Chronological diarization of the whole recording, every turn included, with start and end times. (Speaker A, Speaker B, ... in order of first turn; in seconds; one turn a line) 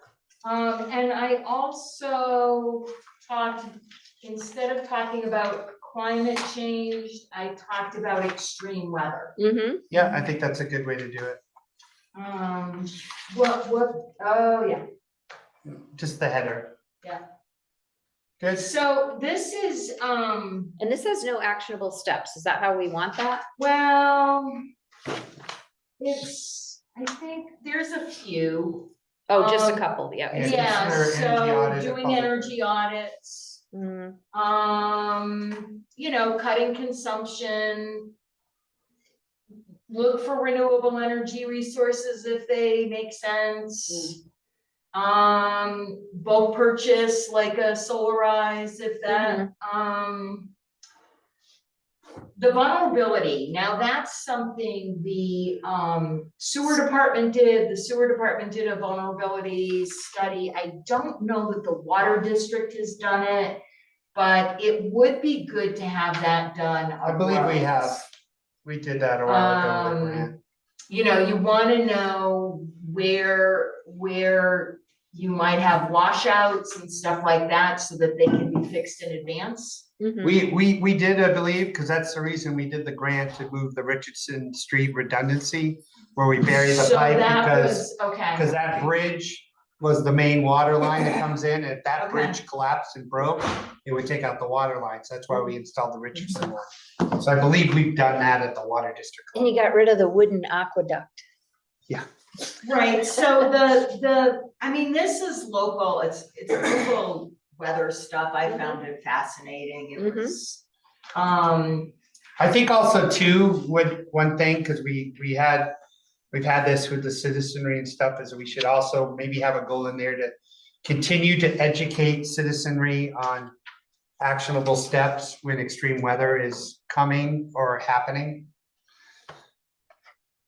Speaker A: 0.4-9.3
Speaker B: 9.4-9.8
Speaker C: 9.9-11.4
Speaker A: 12.1-14.8
Speaker C: 15.6-16.7
Speaker C: 18.4-18.7
Speaker A: 18.5-20.8
Speaker B: 20.8-23.4
Speaker A: 23.6-24.5
Speaker A: 26.0-33.6
Speaker B: 29.3-30.6
Speaker C: 30.3-32.5
Speaker B: 33.7-34.2
Speaker A: 34.3-38.1
Speaker A: 39.9-44.2
Speaker A: 44.9-50.5
Speaker B: 49.1-49.5
Speaker A: 52.4-63.6
Speaker A: 64.1-68.0
Speaker C: 67.0-68.0
Speaker C: 68.6-70.3
Speaker A: 69.2-70.3
Speaker A: 70.9-79.9
Speaker B: 80.0-80.4
Speaker C: 80.2-99.5
Speaker A: 86.5-88.9
Speaker A: 92.0-92.4
Speaker B: 99.3-101.2
Speaker A: 102.6-110.6
Speaker B: 108.5-108.7
Speaker B: 110.0-110.3
Speaker A: 111.1-111.9
Speaker C: 112.4-115.7
Speaker C: 116.3-123.5
Speaker C: 124.2-128.5